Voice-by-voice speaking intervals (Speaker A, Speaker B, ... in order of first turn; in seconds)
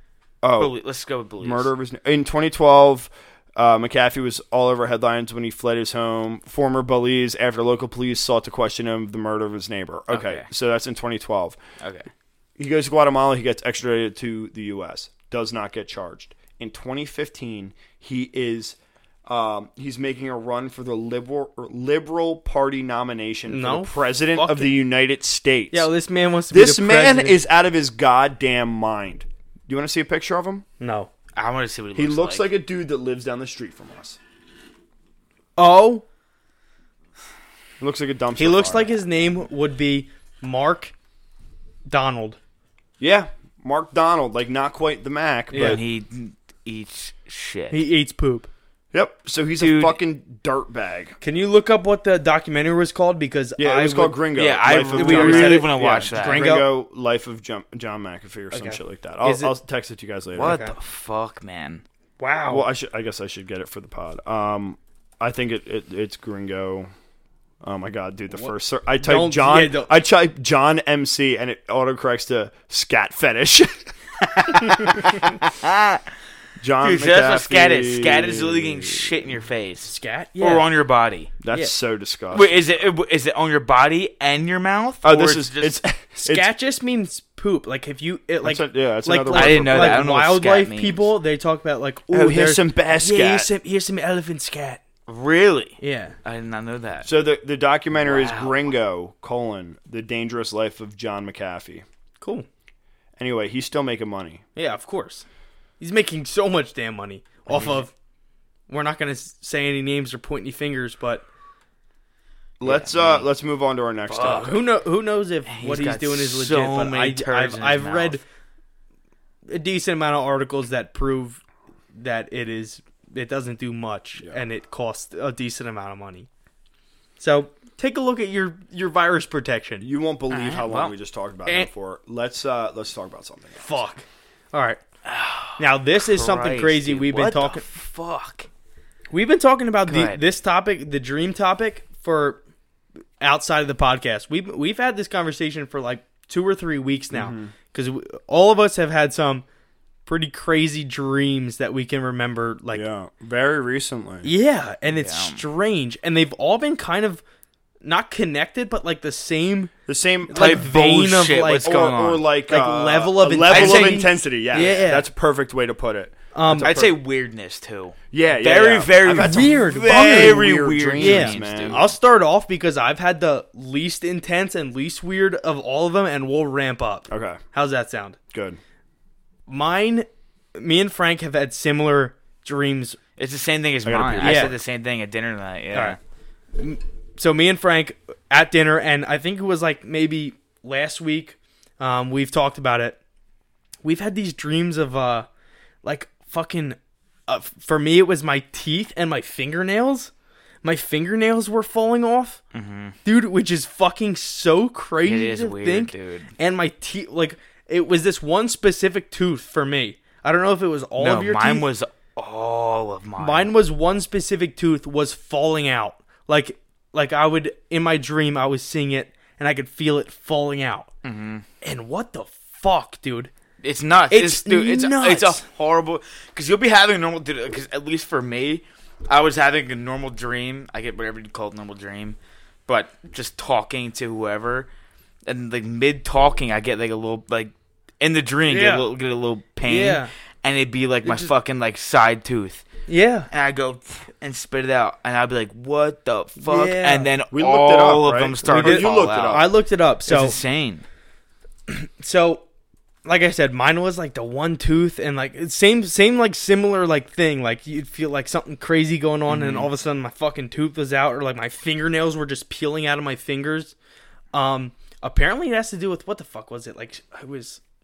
Speaker A: 0.4-0.7, 1.4-11.6, 12.6-25.9, 26.5-30.6, 31.9-34.2, 37.8-38.9, 43.0-45.8, 48.9-51.2, 53.6-60.6, 62.5-66.9, 67.6-73.9, 74.7-75.2, 76.6-79.2, 81.4-82.6, 85.0-86.5, 88.4-90.0, 92.1-93.5, 97.0-101.8, 103.2-104.4, 112.6-114.6, 129.8-133.8, 147.1-147.5, 152.7-154.3, 159.8-160.8, 161.6-166.9, 168.1-171.8, 177.1-177.4, 178.3-178.6, 183.8-184.6, 247.3-249.5
Speaker B: 0.6-1.7, 10.1-10.4, 11.8-12.1, 31.4-32.5, 45.5-47.8, 49.6-50.0, 54.4-56.5, 60.4-61.8, 74.2-76.1, 76.8-81.3, 82.3-85.8, 89.3-91.1, 95.1-97.1, 98.0-98.6, 107.5-107.8, 112.6-113.3, 114.1-114.6, 115.5-118.2, 130.3-130.9, 135.0-138.5, 139.9-140.2, 154.9-155.4, 160.3-162.2, 163.4-164.8, 166.6-171.9, 183.2-186.0, 202.5-202.9, 205.0-206.3, 211.0-213.5, 221.0-221.4, 223.6-234.7, 235.2-242.7, 243.3-249.5, 250.1-250.8, 259.3-259.7
Speaker C: 23.5-24.7, 25.7-27.4, 30.8-31.1, 35.6-36.0, 38.4-40.9, 41.9-42.4, 45.5-45.8, 47.7-48.5, 51.2-56.7, 58.5-59.5, 60.4-60.7, 62.2-62.6, 69.0-69.9, 79.8-80.7, 86.2-94.8, 95.8-96.1, 102.2-102.5, 104.5-105.2, 105.8-107.9, 108.7-111.2, 114.2-118.2, 119.5-121.4, 121.9-126.3, 127.2-129.8, 133.6-134.8, 135.6-137.6, 139.1-142.4, 143.2-149.4, 150.1-152.8, 154.2-157.2, 157.8-159.7, 160.3-161.8, 162.5-165.1, 166.3-166.9, 169.2-170.5, 171.0-178.2, 179.5-183.0, 184.2-184.5, 186.6-193.0, 193.8-195.3, 195.8-200.1, 200.6-202.4, 203.0-211.7, 213.2-220.9, 221.6-223.3, 224.1-225.4, 238.5-238.9, 239.6-240.1, 241.0-241.3, 242.9-243.3, 246.4-247.1, 248.4-250.4, 251.7-252.4, 253.0-263.7, 264.3-267.6